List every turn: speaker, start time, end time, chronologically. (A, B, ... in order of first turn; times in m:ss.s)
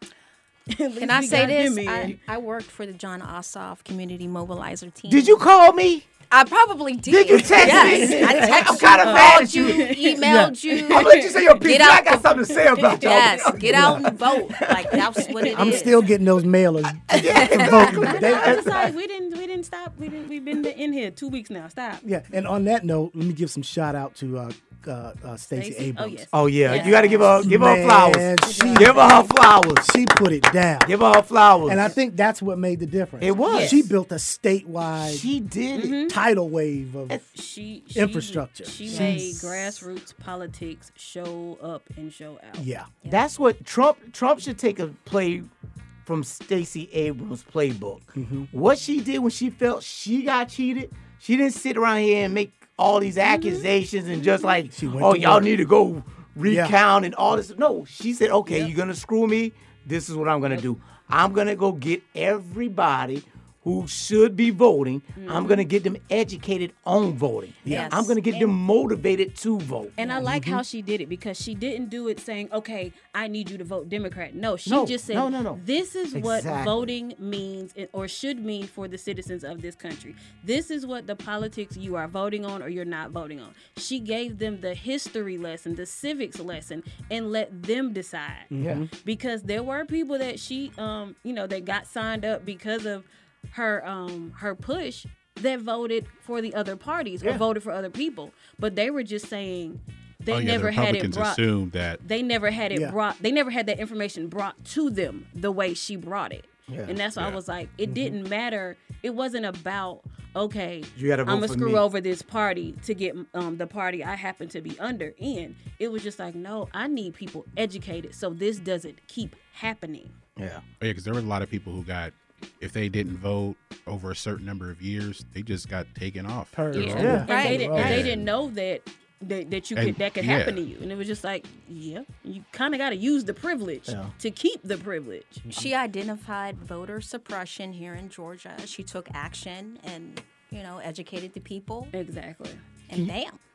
0:00.7-0:02.2 A
0:01.0-0:05.4 B
0:05.0-0:06.1 C
0:06.3-0:16.1 B
0:07.0-0:10.0 C
0:07.7-0:08.1 A
0:09.0-0:10.2 A
0:10.2-0:10.5 D
0:10.7-0:11.4 A
0:10.9-0:14.8 C
0:12.9-0:13.6 A
0:13.6-0:14.1 D
0:15.4-0:15.9 A
0:15.4-0:18.7 D
0:17.2-0:18.8 C
0:17.6-0:18.0 B
0:17.8-0:22.0 A
0:22.0-0:26.3 D
0:25.5-0:27.5 A
0:26.3-0:29.9 C
0:26.6-0:27.3 B
0:27.4-0:29.0 D
0:28.4-0:29.3 A
0:29.8-0:30.9 D
0:30.8-0:31.8 C
0:31.6-0:35.2 D
0:33.2-0:33.9 C
0:33.5-0:33.9 A
0:35.0-0:36.0 C
0:35.7-0:36.2 A
0:36.1-0:37.2 D
0:37.3-0:42.7 A
0:37.9-0:39.7 D
0:38.9-0:39.2 B
0:42.6-0:42.9 D
0:43.1-0:45.5 C
0:46.0-1:10.0 C
0:48.1-0:48.5 D
0:53.2-0:53.6 A
0:54.7-0:55.5 D
0:56.4-0:56.8 D
0:58.5-0:58.7 A
1:05.2-1:05.6 A
1:07.6-1:08.2 B
1:07.6-1:07.9 D
1:07.7-1:08.5 A
1:10.0-1:28.5 A
1:10.2-1:10.6 D
1:14.6-1:15.6 C
1:16.1-1:16.9 C
1:28.5-1:28.9 D
1:28.6-1:28.8 C
1:29.0-1:41.4 A
1:40.3-1:42.0 E
1:42.0-2:00.1 A
1:46.7-1:47.0 C
1:47.8-1:48.2 D
1:51.0-1:51.8 C
2:00.4-2:00.6 C
2:00.8-2:07.2 E
2:06.5-2:08.1 D
2:06.7-2:15.4 A
2:07.0-2:07.3 C
2:07.1-2:07.8 B
2:07.7-2:08.2 E
2:09.7-2:10.6 E
2:13.9-2:14.1 C
2:15.4-2:15.7 D
2:15.5-2:21.9 B
2:21.9-2:22.6 A
2:22.9-2:23.4 B